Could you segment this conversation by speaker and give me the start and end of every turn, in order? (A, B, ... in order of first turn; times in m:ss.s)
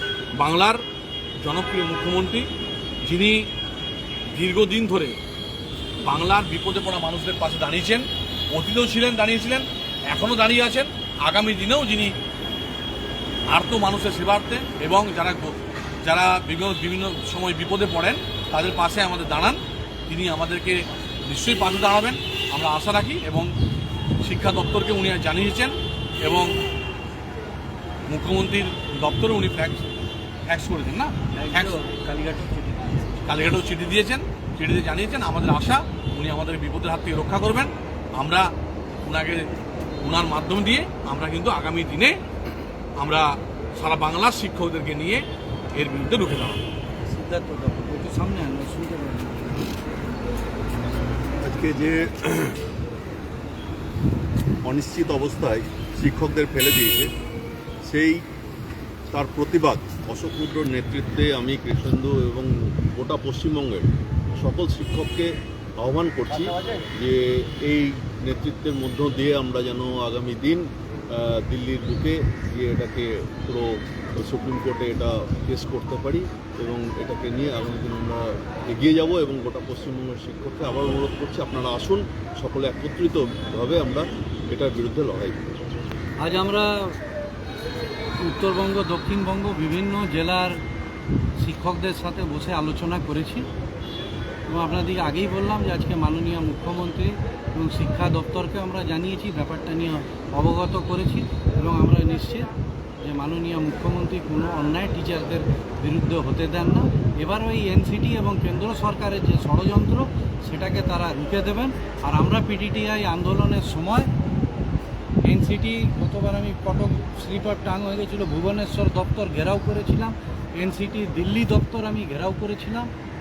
0:00.4-0:00.8 A
0:01.4-0:02.5 A
0:03.0-0:03.4 A
0:04.3-0:05.2 A
0:06.0-0:12.1 A
0:13.5-0:23.5 A
0:24.2-0:26.6 A
0:28.1-0:29.9 A
0:30.5-0:31.7 A
0:31.3-0:33.3 B
0:33.2-0:38.5 A
0:39.0-0:42.2 A
0:43.0-0:46.6 A
0:47.0-0:49.7 B
0:51.4-0:52.6 C
0:54.6-0:57.1 C
0:57.8-0:58.2 C
0:59.1-1:25.5 C
1:26.2-1:27.0 B
1:28.2-1:30.6 B
1:31.4-1:33.5 B
1:34.5-1:54.1 B
1:55.2-2:02.9 B